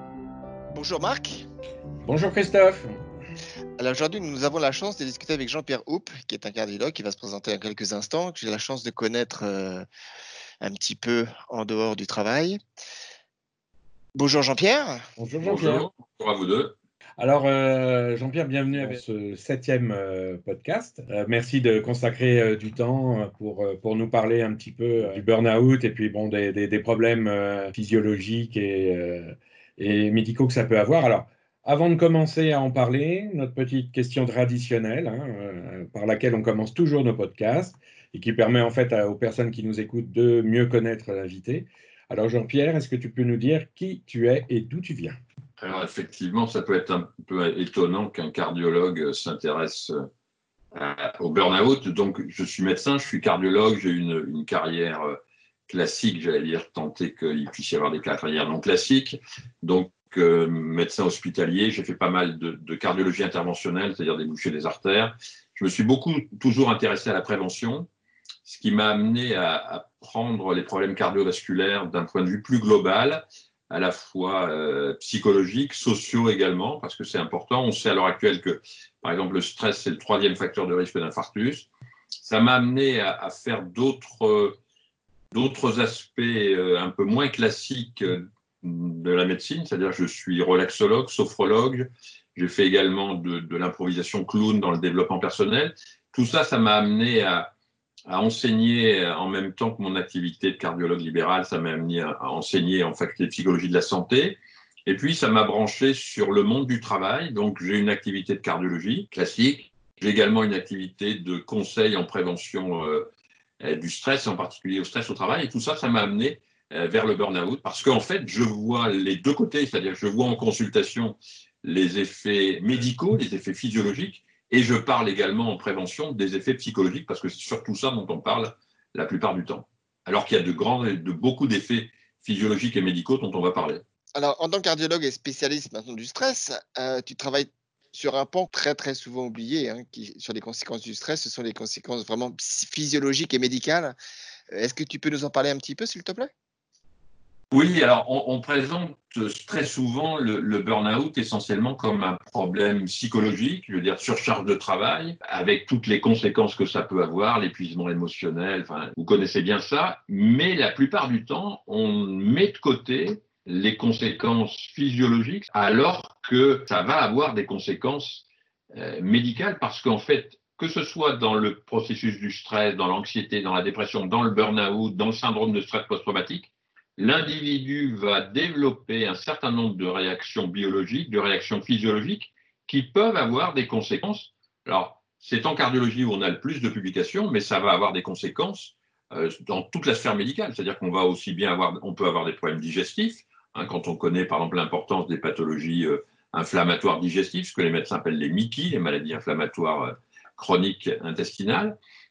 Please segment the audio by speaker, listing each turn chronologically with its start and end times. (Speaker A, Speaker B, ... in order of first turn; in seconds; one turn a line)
Speaker A: 0.7-1.4
Speaker B: 2.0-3.0
Speaker A: 3.8-9.8
Speaker A: 10.6-12.6
Speaker A: 14.1-15.1
Speaker B: 15.2-15.9
Speaker C: 15.4-16.7
Speaker B: 17.2-45.1
Speaker C: 45.6-50.0
Speaker C: 50.7-55.2
Speaker C: 55.7-67.9
Speaker C: 68.4-81.7
Speaker C: 82.2-84.6
Speaker C: 85.3-97.5
Speaker C: 98.1-133.8
Speaker A: 134.2-143.9
Speaker A: 144.5-146.3
Speaker C: 147.5-201.8